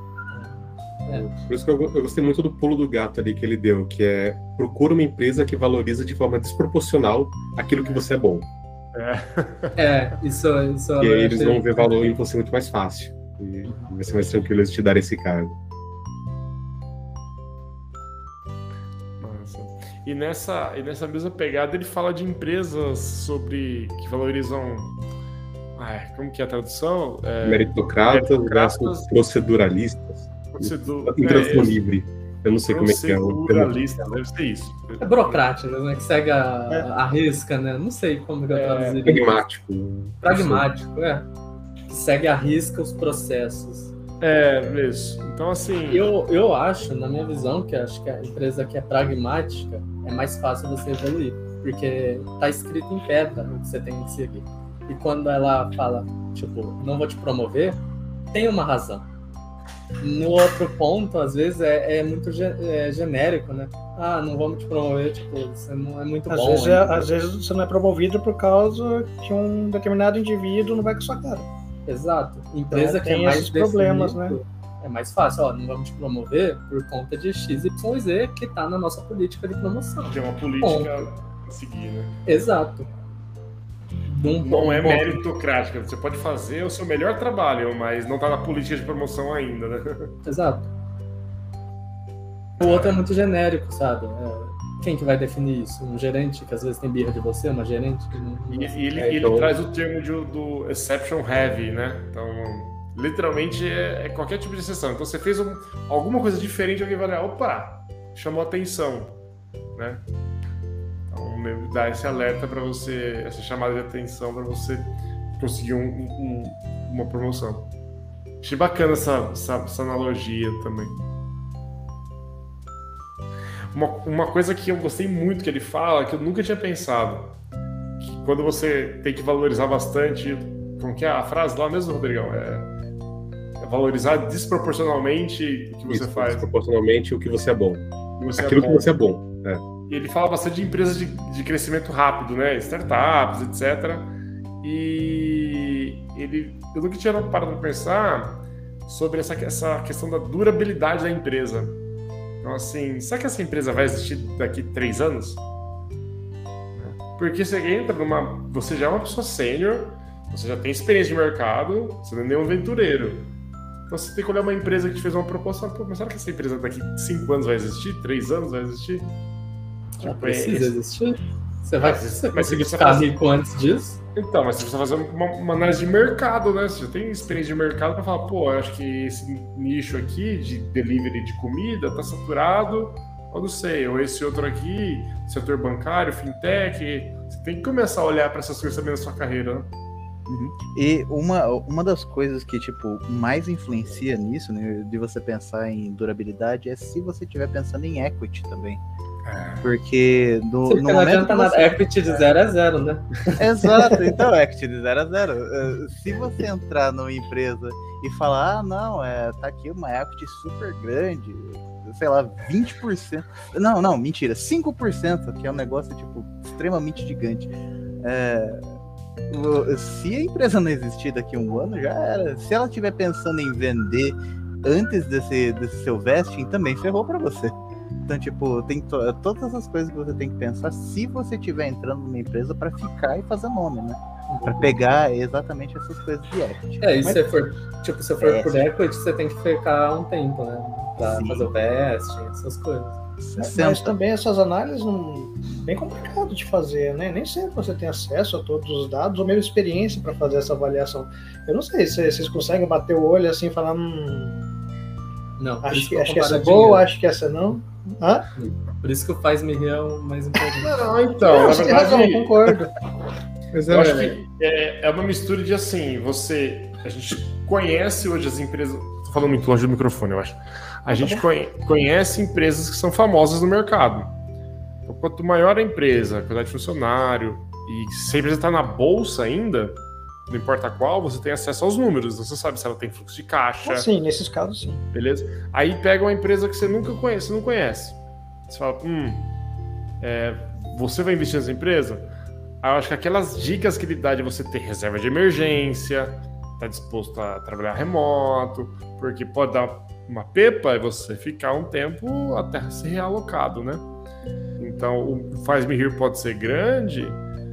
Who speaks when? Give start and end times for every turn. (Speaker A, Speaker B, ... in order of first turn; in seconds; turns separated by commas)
Speaker A: 0.3-1.3, Speaker B: 1.1-8.5, Speaker C: 8.9-9.8, Speaker A: 9.8-11.8, Speaker B: 11.0-15.5, Speaker C: 19.2-25.0, Speaker C: 25.8-29.1, Speaker B: 27.4-33.8, Speaker C: 30.5-31.8, Speaker C: 32.7-35.4, Speaker A: 35.0-39.4, Speaker C: 38.5-39.2, Speaker B: 39.0-40.6, Speaker A: 40.2-41.3, Speaker A: 41.9-43.9, Speaker C: 44.2-46.1, Speaker A: 45.9-57.8, Speaker A: 58.3-59.1, Speaker A: 60.0-67.1, Speaker D: 66.3-71.5, Speaker A: 71.9-80.9, Speaker D: 72.7-74.4, Speaker C: 80.0-82.2, Speaker A: 82.2-82.9, Speaker A: 84.0-85.2, Speaker C: 84.4-90.1, Speaker A: 90.2-90.7, Speaker A: 92.6-98.7, Speaker C: 92.6-93.0, Speaker C: 98.5-109.2, Speaker B: 98.9-99.5, Speaker C: 109.7-110.0, Speaker C: 111.1-117.7, Speaker C: 118.4-121.0, Speaker C: 123.7-127.3, Speaker C: 128.0-132.7, Speaker C: 133.6-136.4, Speaker B: 135.9-139.6, Speaker C: 138.2-138.9, Speaker C: 139.9-151.8, Speaker C: 152.4-155.4, Speaker C: 156.8-163.3, Speaker C: 163.9-169.1, Speaker C: 170.0-170.7, Speaker A: 170.0-174.0, Speaker C: 171.8-173.1, Speaker C: 174.1-189.7, Speaker E: 190.3-198.8, Speaker C: 199.2-199.7, Speaker E: 199.6-201.8, Speaker A: 200.7-203.4, Speaker E: 203.3-218.7, Speaker E: 219.3-236.9, Speaker A: 234.3-234.8, Speaker A: 236.8-243.0, Speaker E: 238.2-238.7, Speaker E: 241.0-241.5, Speaker E: 243.2-243.9, Speaker D: 243.4-254.5, Speaker A: 255.4-256.9, Speaker D: 255.6-258.3, Speaker A: 258.3-260.9, Speaker C: 260.6-262.6, Speaker D: 261.2-262.7, Speaker B: 263.5-264.1, Speaker C: 263.7-274.1, Speaker A: 263.7-264.1, Speaker C: 274.9-283.9, Speaker D: 283.6-284.8, Speaker C: 284.9-289.3, Speaker C: 290.0-292.1, Speaker C: 292.6-303.8, Speaker C: 304.6-307.2